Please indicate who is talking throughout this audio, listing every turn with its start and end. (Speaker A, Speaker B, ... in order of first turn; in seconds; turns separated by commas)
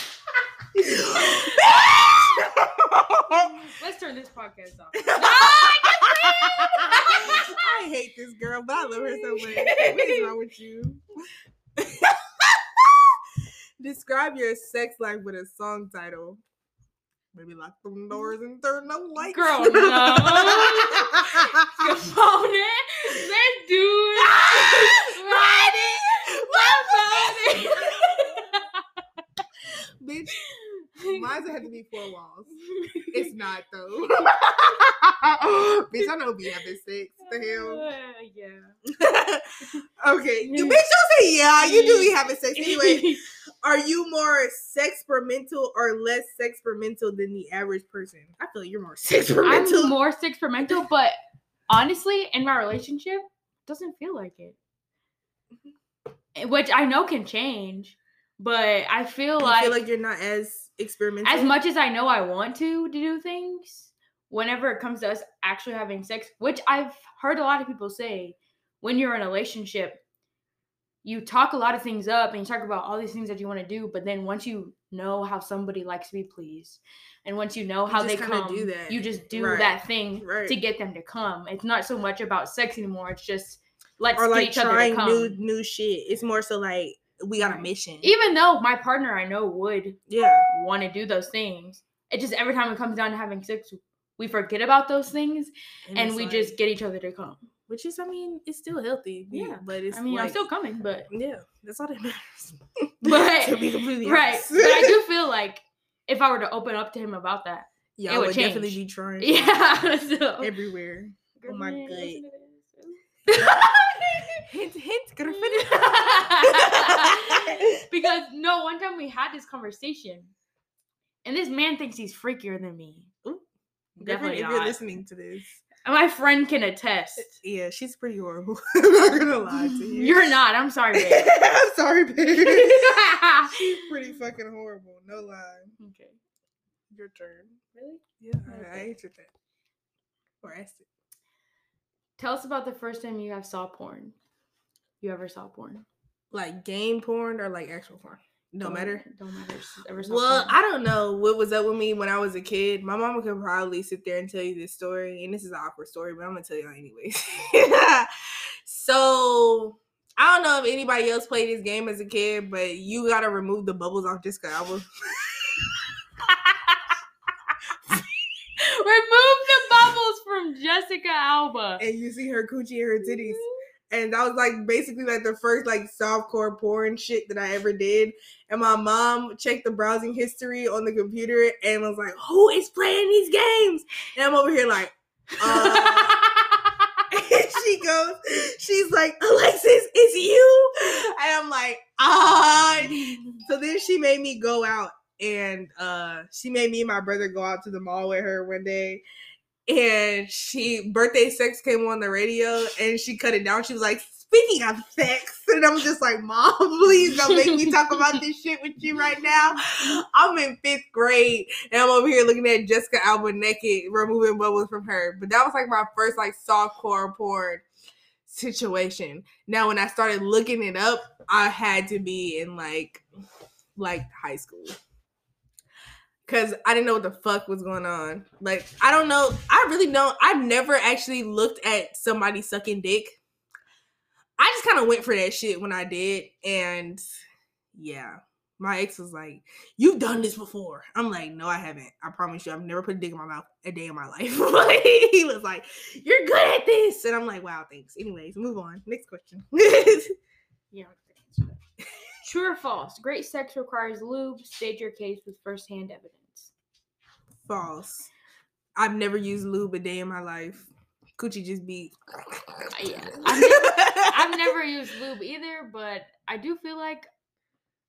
Speaker A: 0.7-3.5, Speaker B: 1.1-1.6, Speaker B: 3.3-7.7, Speaker A: 5.0-11.0, Speaker B: 8.9-10.3, Speaker A: 11.8-13.2, Speaker A: 13.8-16.4, Speaker A: 17.3-22.0, Speaker B: 19.2-28.8, Speaker A: 24.2-28.4, Speaker A: 30.0-30.4, Speaker B: 30.4-31.6, Speaker A: 31.1-37.8, Speaker B: 32.6-33.3, Speaker B: 36.0-36.6, Speaker B: 37.2-38.7, Speaker A: 38.9-49.9, Speaker B: 40.4-40.8, Speaker B: 41.6-43.2, Speaker B: 49.5-51.1, Speaker B: 51.7-54.6, Speaker B: 56.4-59.8, Speaker A: 59.4-61.5, Speaker B: 61.2-70.0, Speaker B: 71.0-85.4, Speaker A: 77.9-80.5, Speaker A: 84.2-88.1, Speaker B: 87.4-97.4, Speaker A: 90.1-90.5, Speaker A: 95.9-96.5, Speaker A: 97.7-100.4, Speaker B: 99.3-101.1, Speaker A: 101.1-105.0, Speaker B: 103.0-110.5, Speaker A: 108.0-109.6, Speaker A: 110.4-112.2, Speaker B: 111.4-114.5, Speaker A: 114.5-117.7, Speaker B: 115.3-120.3, Speaker B: 121.2-123.1, Speaker B: 124.0-124.8, Speaker A: 124.0-125.6, Speaker B: 125.8-127.3, Speaker A: 127.3-130.2, Speaker B: 129.5-131.3, Speaker A: 130.9-135.7, Speaker B: 132.4-134.1, Speaker B: 135.8-136.2, Speaker A: 136.9-137.6, Speaker B: 137.7-138.9, Speaker A: 138.2-139.3, Speaker A: 140.4-140.8, Speaker B: 142.2-144.1, Speaker B: 145.0-145.8, Speaker A: 146.3-149.0, Speaker B: 148.6-150.6, Speaker A: 150.0-165.8, Speaker B: 166.3-166.9, Speaker B: 168.6-171.8, Speaker A: 171.8-186.2, Speaker B: 173.0-173.6, Speaker B: 185.4-187.0, Speaker A: 187.1-199.0, Speaker B: 192.9-193.4, Speaker A: 199.7-217.6, Speaker B: 207.3-208.1, Speaker A: 218.2-223.0, Speaker A: 223.8-224.8, Speaker A: 226.2-233.2, Speaker A: 234.4-237.0, Speaker A: 237.7-250.1, Speaker B: 250.7-251.6, Speaker B: 252.2-256.5, Speaker A: 257.4-258.1, Speaker A: 258.8-264.5, Speaker B: 262.7-267.1